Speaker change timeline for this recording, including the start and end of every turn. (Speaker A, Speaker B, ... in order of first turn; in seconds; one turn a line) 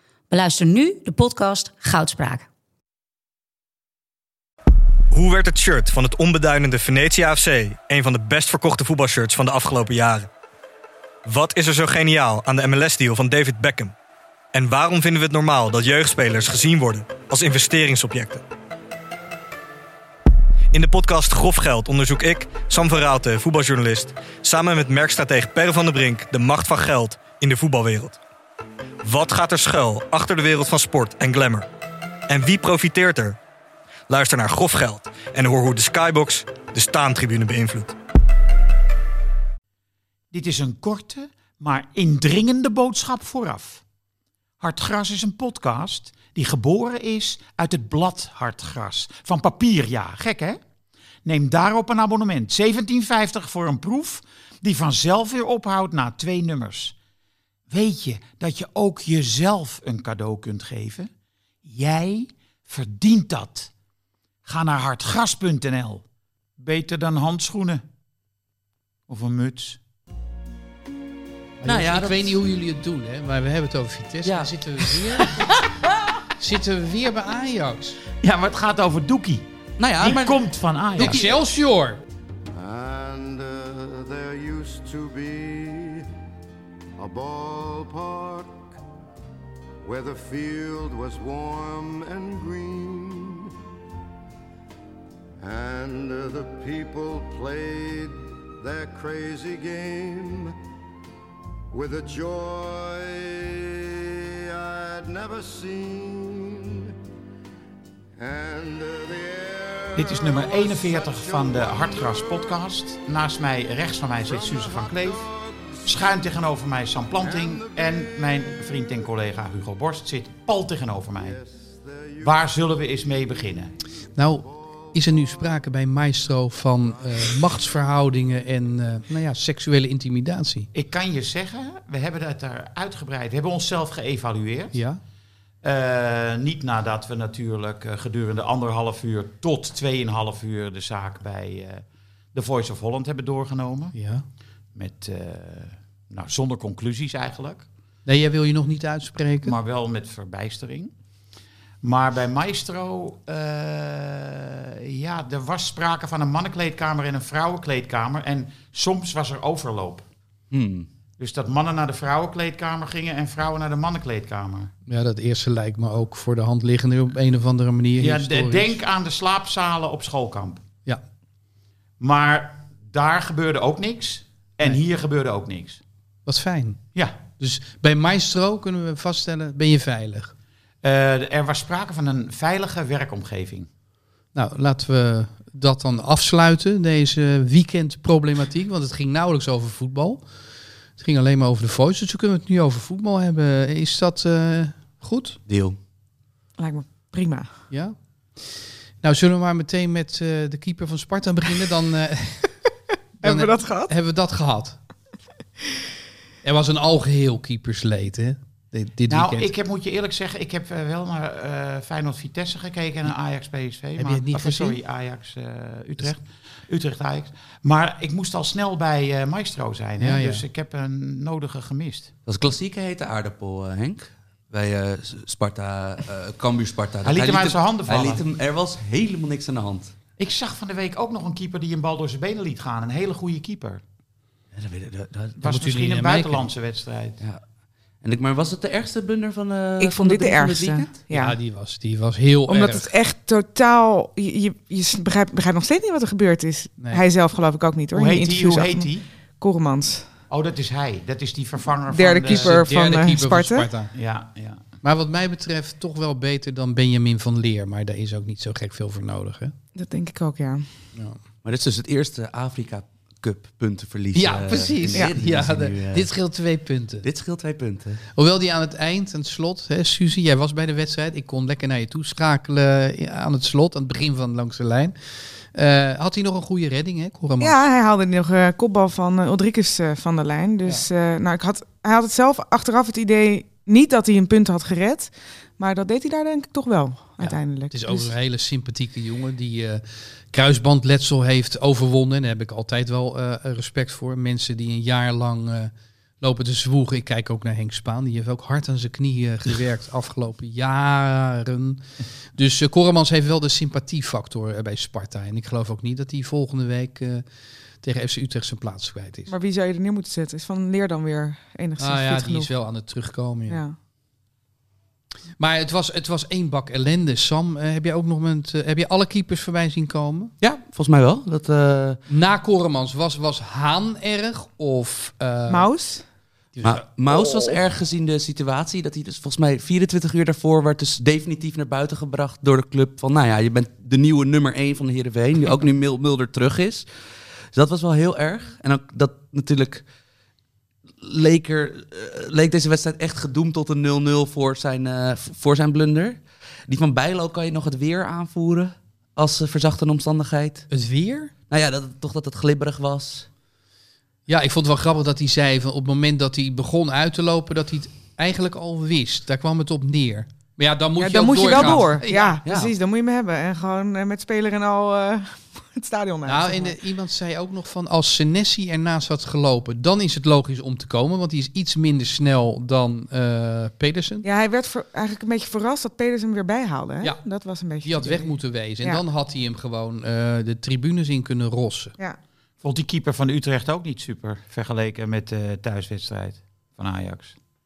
Speaker A: 0.3-2.5
Speaker B: 5.1-10.3
Speaker B: 11.2-13.9
Speaker B: 14.5-18.4
Speaker B: 20.7-28.2
Speaker B: 29.0-31.7
Speaker B: 32.3-33.4
Speaker B: 34.1-37.9
Speaker C: 40.3-43.8
Speaker C: 44.6-50.6
Speaker C: 51.2-57.0
Speaker C: 57.7-61.1
Speaker C: 61.6-63.7
Speaker C: 64.4-66.0
Speaker C: 66.6-67.8
Speaker C: 69.1-69.8
Speaker D: 71.6-75.4
Speaker E: 71.7-72.3
Speaker E: 74.2-75.0
Speaker D: 76.4-78.0
Speaker C: 78.2-79.5
Speaker E: 79.8-81.3
Speaker C: 80.0-81.2
Speaker D: 81.0-82.0
Speaker F: 82.5-86.0
Speaker F: 87.0-88.8
Speaker F: 89.8-93.5
Speaker F: 95.4-100.5
Speaker F: 101.7-106.9
Speaker F: 108.2-112.6
Speaker C: 110.0-115.2
Speaker F: 114.2-116.0
Speaker C: 115.8-121.4
Speaker F: 117.2-119.1
Speaker F: 121.2-123.5
Speaker C: 122.2-123.7
Speaker D: 124.2-130.7
Speaker F: 124.4-125.4
Speaker C: 130.7-134.8
Speaker D: 134.7-135.0
Speaker C: 135.6-144.0
Speaker D: 143.9-144.2
Speaker C: 144.8-147.7
Speaker D: 148.1-149.6
Speaker C: 149.4-150.9
Speaker C: 151.8-160.1
Speaker E: 160.5-160.9
Speaker C: 161.2-164.7
Speaker D: 164.9-168.8
Speaker C: 168.0-170.6
Speaker C: 172.0-175.8
Speaker D: 176.2-176.8
Speaker D: 177.4-180.3
Speaker C: 180.8-183.7
Speaker D: 184.3-190.2
Speaker D: 191.0-195.4
Speaker E: 195.5-195.8
Speaker G: 196.6-197.5
Speaker D: 197.7-202.6
Speaker G: 203.2-203.9
Speaker D: 203.2-204.8
Speaker D: 206.4-209.5
Speaker C: 209.1-222.1
Speaker D: 214.0-214.8
Speaker D: 220.0-220.4
Speaker E: 222.2-229.9
Speaker C: 227.1-228.2
Speaker C: 230.2-233.8
Speaker E: 234.5-235.4
Speaker C: 235.4-237.2
Speaker D: 235.4-236.5
Speaker E: 238.0-241.0
Speaker G: 239.8-241.3
Speaker D: 241.1-242.9
Speaker G: 242.5-250.1
Speaker C: 247.9-249.1
Speaker C: 250.3-252.6
Speaker G: 251.9-253.7
Speaker D: 252.2-253.9
Speaker C: 253.9-254.6
Speaker D: 254.8-259.5
Speaker G: 259.8-260.7
Speaker E: 261.4-266.1
Speaker D: 264.1-267.1
Speaker E: 267.0-268.0
Speaker D: 268.1-274.9
Speaker D: 275.5-277.6
Speaker G: 277.4-288.1
Speaker D: 287.2-301.8
Speaker D: 302.3-307.2
Speaker D: 307.8-309.3
Speaker G: 309.3-312.5
Speaker D: 311.8-313.6
Speaker G: 313.5-313.8
Speaker D: 315.4-320.3
Speaker E: 320.4-322.0
Speaker D: 322.1-325.7
Speaker G: 325.5-326.0
Speaker D: 326.5-326.8
Speaker E: 326.6-336.9
Speaker E: 337.5-339.8
Speaker E: 341.0-350.7
Speaker D: 350.7-351.3
Speaker E: 351.5-353.3
Speaker D: 354.3-362.4
Speaker G: 361.0-366.8
Speaker E: 361.5-361.8
Speaker E: 362.4-362.7
Speaker D: 366.2-374.2
Speaker G: 374.2-379.0
Speaker D: 377.8-381.9
Speaker C: 382.6-387.4